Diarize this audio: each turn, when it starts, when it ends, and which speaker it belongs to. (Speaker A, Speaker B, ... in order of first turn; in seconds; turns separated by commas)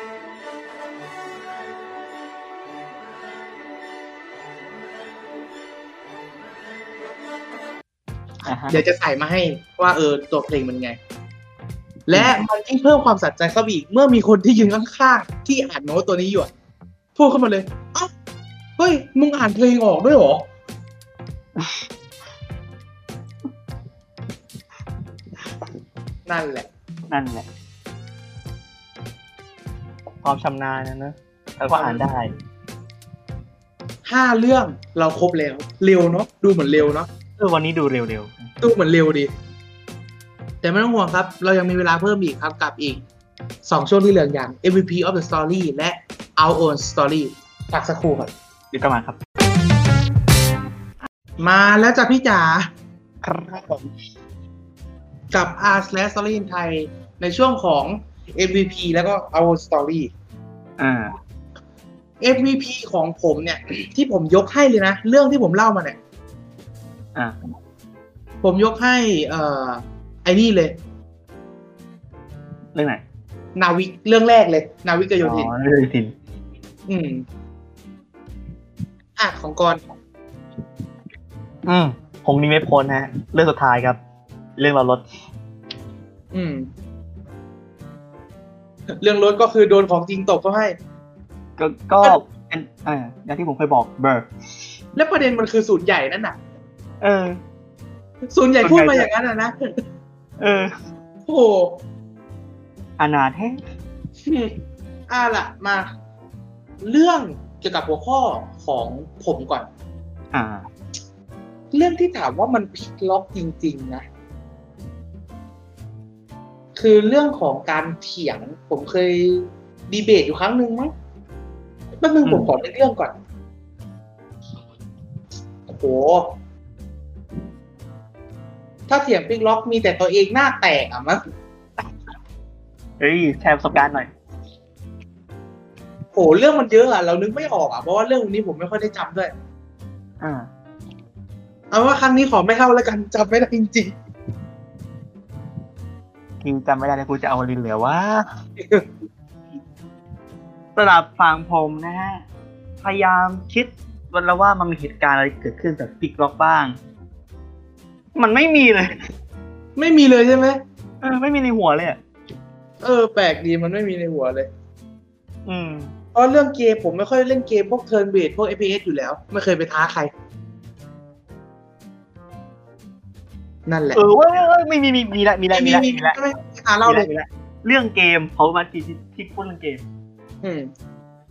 Speaker A: 8.4-8.8, Speaker B: 8.7-11.0, Speaker B: 12.1-16.5, Speaker A: 12.1-12.4, Speaker B: 17.1-18.1, Speaker B: 18.8-20.5, Speaker B: 26.2-26.7, Speaker A: 27.1-27.5, Speaker A: 30.2-32.3, Speaker B: 31.7-32.0, Speaker B: 34.0-37.1, Speaker A: 37.4-38.5, Speaker B: 38.6-39.3, Speaker B: 40.6-43.0, Speaker B: 43.6-48.3, Speaker A: 48.7-49.2, Speaker B: 51.4-52.7, Speaker A: 53.2-53.9, Speaker B: 55.3-60.1, Speaker A: 60.8-61.1, Speaker B: 62.2-66.0, Speaker B: 68.4-70.8, Speaker A: 72.7-73.0, Speaker B: 73.5-75.5, Speaker A: 75.2-76.1, Speaker B: 76.9-77.2, Speaker B: 79.2-79.8, Speaker A: 81.7-84.0, Speaker A: 84.6-85.0, Speaker B: 86.3-86.7, Speaker B: 89.0-90.8, Speaker A: 91.6-94.3, Speaker B: 94.9-96.4, Speaker A: 97.0-97.4, Speaker B: 98.3-99.7, Speaker A: 98.6-99.1, Speaker A: 100.4-100.7, Speaker B: 101.2-101.8, Speaker A: 103.0-103.6, Speaker B: 104.2-105.9, Speaker B: 106.8-109.7, Speaker A: 110.3-110.7, Speaker B: 111.7-114.0, Speaker B: 116.7-120.9, Speaker B: 122.0-123.1, Speaker A: 122.2-122.5, Speaker B: 125.7-126.3, Speaker B: 128.9-131.2, Speaker A: 133.0-134.1, Speaker B: 136.1-139.3, Speaker A: 140.2-140.5, Speaker B: 141.7-143.9, Speaker A: 146.4-148.2, Speaker B: 148.6-148.9, Speaker A: 150.8-152.2, Speaker A: 152.8-156.8, Speaker A: 158.2-159.1, Speaker B: 159.8-160.6, Speaker A: 161.0-162.0, Speaker B: 162.8-164.5, Speaker A: 165.4-165.9, Speaker B: 166.1-170.1, Speaker B: 173.7-174.0, Speaker A: 173.9-176.2, Speaker B: 175.5-177.1, Speaker A: 176.8-179.8, Speaker B: 180.4-180.7